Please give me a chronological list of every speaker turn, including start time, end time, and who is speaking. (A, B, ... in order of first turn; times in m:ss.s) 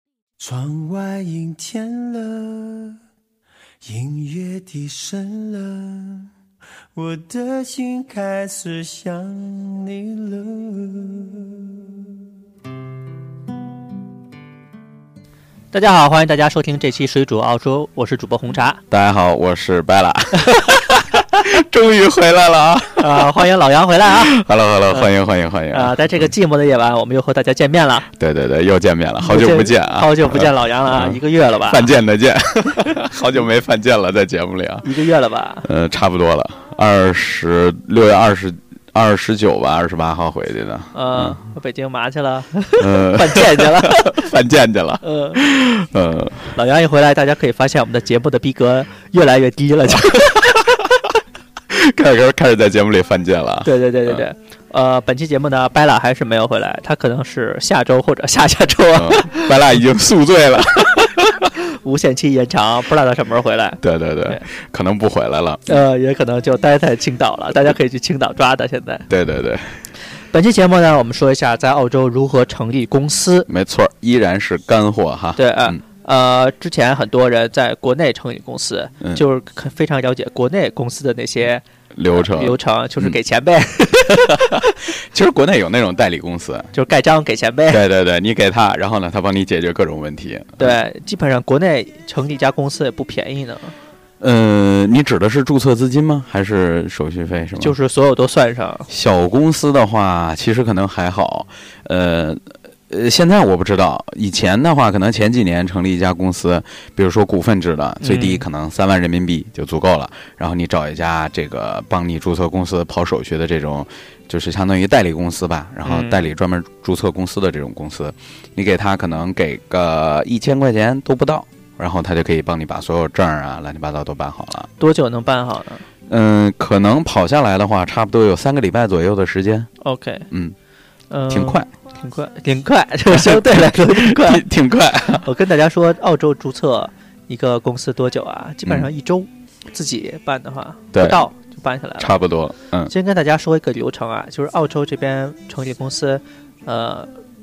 0:00.4-0:03.0 A
0:03.8-0:06.3 A
0:06.9-0:12.0 A
0:15.7-0:18.8 B
0:18.9-0:23.4 C
0:23.0-0:25.1 B
0:24.0-0:26.3 C
0:25.7-0:28.1 B
0:28.1-0:34.9 C
0:29.2-0:32.0 B
0:34.8-0:35.7 B
0:35.6-0:41.4 C
0:40.9-0:44.3 B
0:42.8-0:46.6 C
0:45.0-0:45.4 B
0:46.5-0:50.8 B
0:51.7-0:54.2 C
0:53.6-0:59.6 B
0:58.9-1:01.5 C
1:01.5-1:04.4 B
1:03.8-1:05.8 C
1:05.7-1:09.1 B
1:09.1-1:09.8 C
1:10.3-1:13.5 B
1:13.5-1:15.8 C
1:15.4-1:24.8 B
1:21.9-1:23.2 C
1:24.3-1:26.7 C
1:26.7-1:27.8 B
1:27.7-1:30.8 C
1:30.6-1:33.7 B
1:34.2-1:37.7 C
1:37.6-1:38.9 B
1:38.9-2:04.7 C
1:48.0-1:48.4 B
1:55.8-1:56.3 B
2:04.8-2:05.8 B
2:06.1-2:09.7 C
2:09.8-2:10.3 B
2:11.1-2:14.5 B
2:11.3-2:11.7 C
2:13.1-2:15.3 C
2:15.1-2:22.2 B
2:20.9-2:21.2 C
2:22.0-2:22.9 C
2:22.9-2:27.1 B